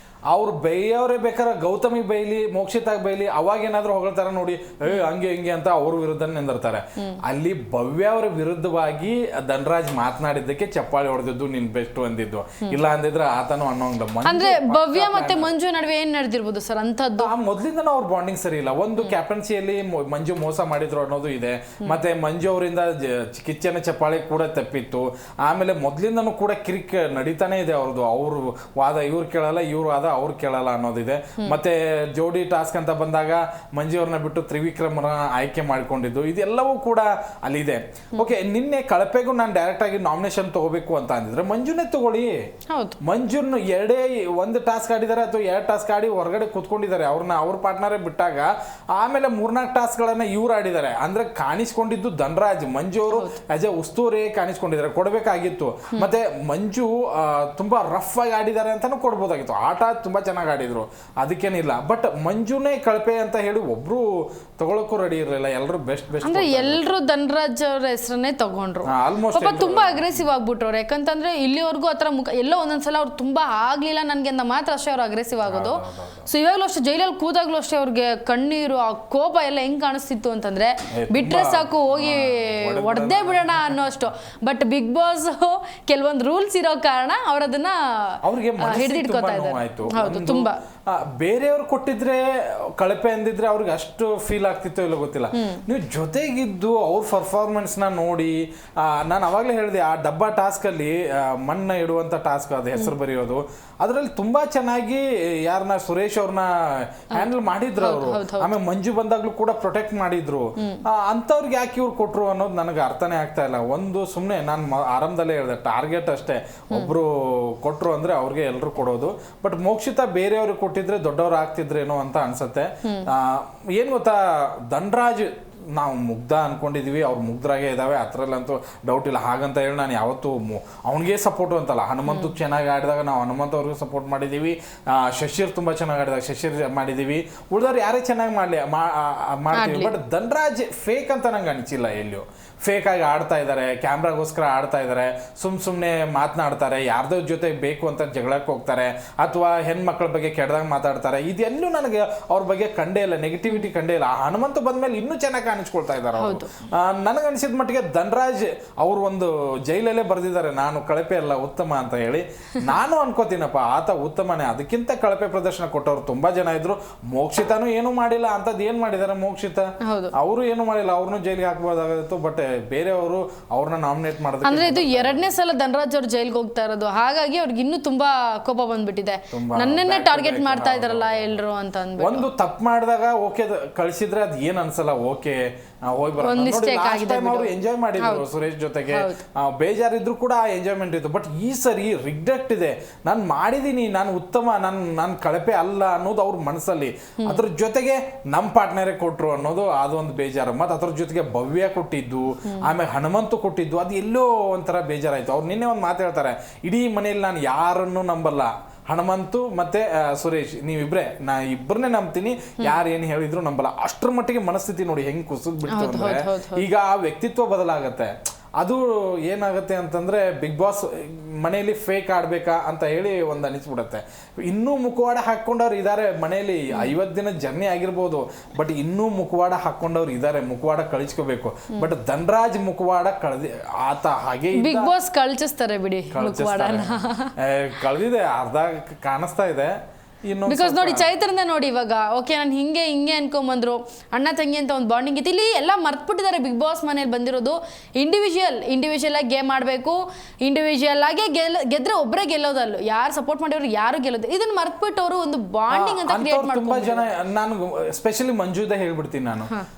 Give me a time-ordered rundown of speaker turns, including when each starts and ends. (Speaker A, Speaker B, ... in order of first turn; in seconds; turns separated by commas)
Speaker A: 0.3-15.6, Speaker B: 14.2-17.3, Speaker A: 17.2-42.5, Speaker B: 42.7-43.0, Speaker A: 43.0-66.8, Speaker B: 53.1-53.4, Speaker B: 66.2-90.6, Speaker A: 68.9-70.2, Speaker A: 75.5-76.3, Speaker A: 80.9-83.9, Speaker A: 88.2-92.3, Speaker A: 92.8-175.3, Speaker B: 95.3-95.6, Speaker B: 107.1-108.5, Speaker B: 132.1-132.3, Speaker B: 139.5-139.9, Speaker B: 156.2-156.5, Speaker B: 169.8-170.1, Speaker B: 174.4-182.3, Speaker A: 179.3-181.4, Speaker A: 182.0-234.9, Speaker B: 186.2-188.3, Speaker B: 188.9-189.2, Speaker B: 215.7-216.7, Speaker B: 234.6-237.3, Speaker A: 236.1-239.7, Speaker A: 240.2-241.2, Speaker B: 240.5-257.1, Speaker A: 255.7-259.5